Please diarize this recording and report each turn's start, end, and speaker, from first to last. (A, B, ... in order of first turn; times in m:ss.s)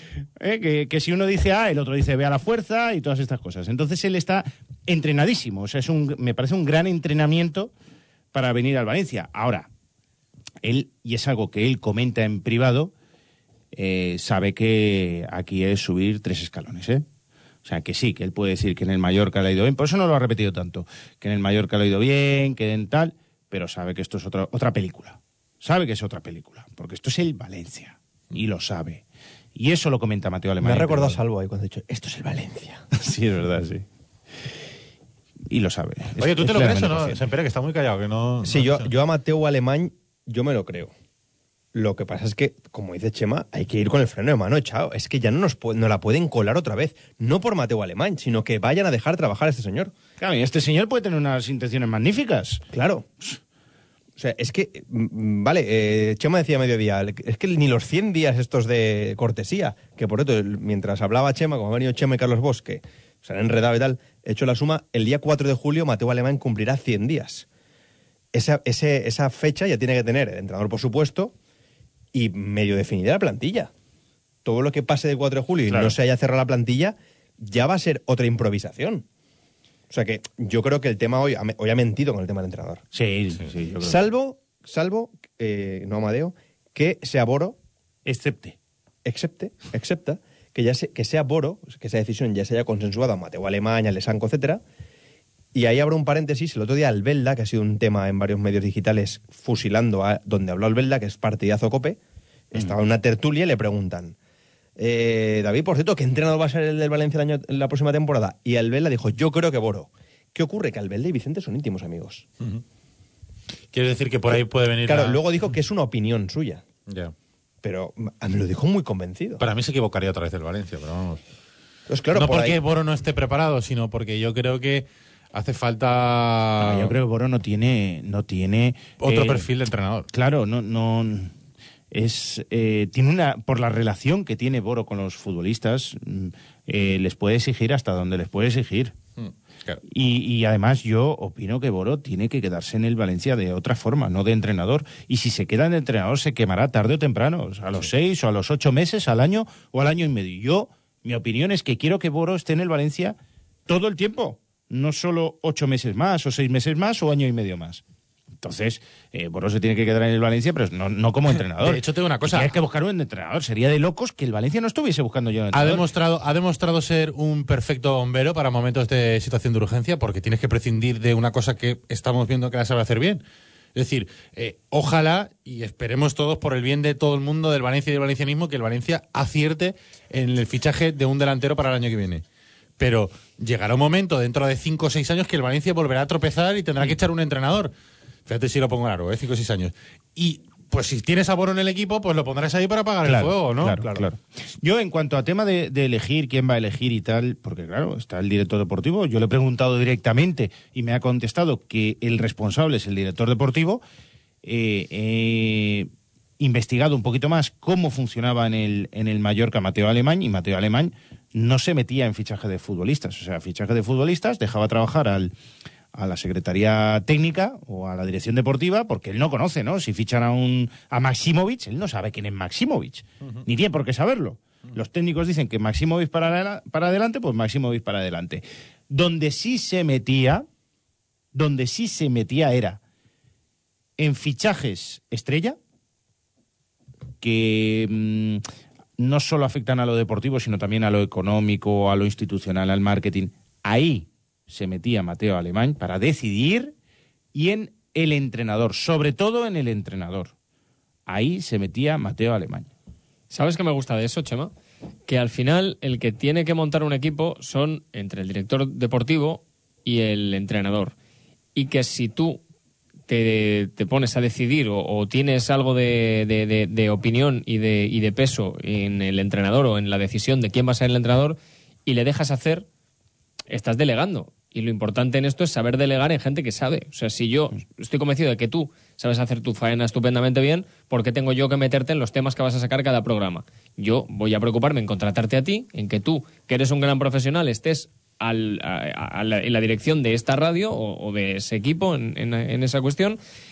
0:00.4-0:07.7 A
0:08.3-0:09.7 A
0:10.6-0:12.9 A
0:13.7-0:17.0 A
0:17.6-0:29.0 A
0:29.5-0:31.2 A
0:30.6-0:32.8 B
0:33.0-0:33.8 A
0:35.5-0:37.2 A
0:36.2-0:38.9 C
0:38.4-0:40.9 B
0:41.7-0:49.9 B
0:50.2-0:52.6 A
0:52.7-0:53.0 B
0:54.2-1:07.4 B
1:08.3-1:11.3 B
1:12.1-1:13.7 B
1:14.4-1:19.0 B
1:15.7-1:15.9 A
1:19.9-1:22.8 B
1:22.9-1:24.0 A
1:23.8-1:27.6 B
1:28.0-1:28.6 A
1:29.0-1:34.6 B
1:35.5-1:42.0 B
1:42.5-1:44.2 B
1:44.8-1:52.2 B
1:53.7-1:55.2 C
1:54.3-1:56.6 B
1:56.9-1:57.1 C
1:57.6-1:59.4 B
1:59.4-2:01.2 C
2:01.9-2:02.6 B
2:02.1-2:07.0 C
2:06.6-2:09.4 A
2:09.0-2:10.1 C
2:10.1-2:11.3 A
2:11.9-2:19.0 A
2:19.2-2:19.8 C
2:19.9-2:37.8 A
2:38.4-2:45.8 A
2:41.3-2:42.5 C
2:45.5-2:53.2 C
2:53.7-3:02.2 C
3:02.8-3:07.7 C
3:08.3-3:13.9 C
3:13.0-3:23.8 A
3:24.4-3:35.3 A
3:35.9-3:50.4 A
3:51.3-3:52.8 A
3:54.0-3:55.6 A
3:57.2-3:58.4 A
3:59.0-4:06.7 A
4:07.3-4:10.3 A
4:11.1-4:12.7 A
4:13.3-4:14.5 D
4:15.1-4:20.9 D
4:21.5-4:22.4 D
4:23.1-4:32.6 D
4:33.5-4:53.2 D